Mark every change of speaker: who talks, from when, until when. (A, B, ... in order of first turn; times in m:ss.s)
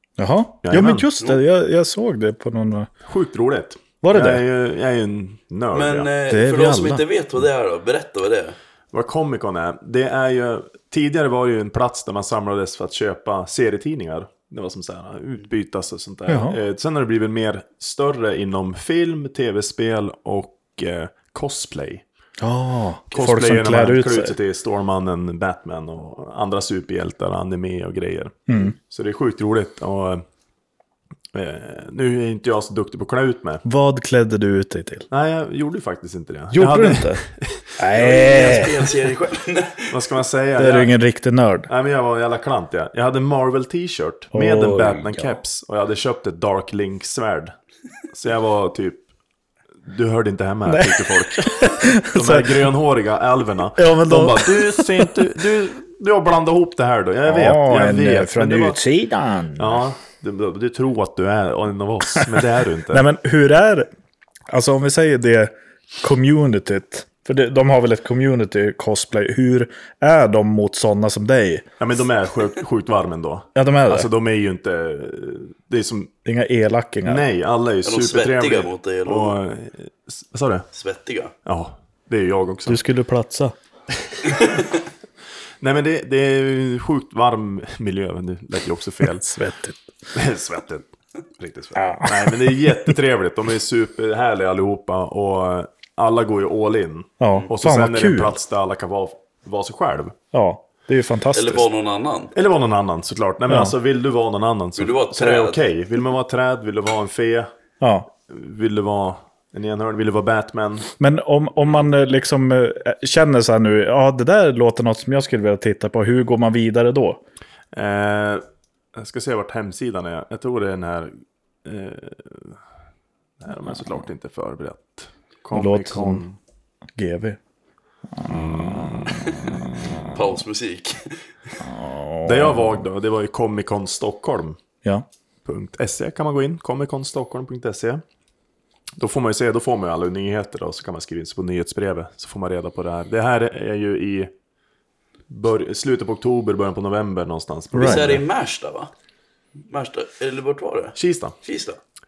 0:00.2-0:02.9 A
0:00.6-0:01.1 B
0:03.0-0:06.1 B
0:04.0-0:04.4 A
0:05.7-0:08.6 C
0:06.3-0:07.0 A
0:08.9-0:22.0 B
0:16.3-0:16.6 A
0:22.4-0:24.4 A
0:23.1-0:30.2 B
0:28.5-0:28.7 A
0:31.3-0:33.6 B
0:33.6-0:35.1 A
0:35.1-0:37.7 B
0:36.5-0:37.2 A
0:37.8-0:38.7 A
0:37.9-0:40.0 C
0:39.9-0:40.9 B
0:40.6-0:41.7 A
0:41.7-0:47.5 B
0:44.3-0:45.4 A
0:48.1-0:49.0 B
0:49.8-0:58.8 B
0:50.7-0:52.6 A
0:53.8-0:55.3 A
0:57.2-0:59.8 A
0:59.6-1:03.0 B
1:02.9-1:03.9 A
1:04.5-1:11.6 A
1:11.8-1:16.1 B
1:13.5-1:14.1 A
1:16.2-1:17.2 A
1:17.0-1:20.7 B
1:17.8-1:19.4 C
1:20.7-1:21.3 C
1:21.4-1:22.8 B
1:22.7-1:23.5 A
1:24.3-1:24.6 C
1:25.6-1:29.3 B
1:29.2-1:29.8 A
1:30.1-1:30.9 B
1:31.4-1:40.1 B
1:31.8-1:32.9 A
1:37.2-1:38.4 A
1:40.3-1:41.6 A
1:41.3-1:42.3 C
1:42.3-1:47.5 B
1:44.8-1:45.6 C
1:47.8-1:48.1 A
1:48.3-1:50.9 B
1:51.0-1:57.2 A
1:57.7-2:02.6 B
2:03.4-2:06.4 B
2:05.5-2:06.2 A
2:07.0-2:07.4 A
2:08.2-2:09.0 A
2:08.3-2:09.0 B
2:10.1-2:11.2 C
2:11.6-2:12.7 A
2:12.2-2:14.6 B
2:15.4-2:18.0 B
2:19.0-2:24.3 B
2:25.3-2:28.2 B
2:27.7-2:28.0 A
2:27.8-2:28.9 C
2:29.7-2:31.8 C
2:30.9-2:31.4 B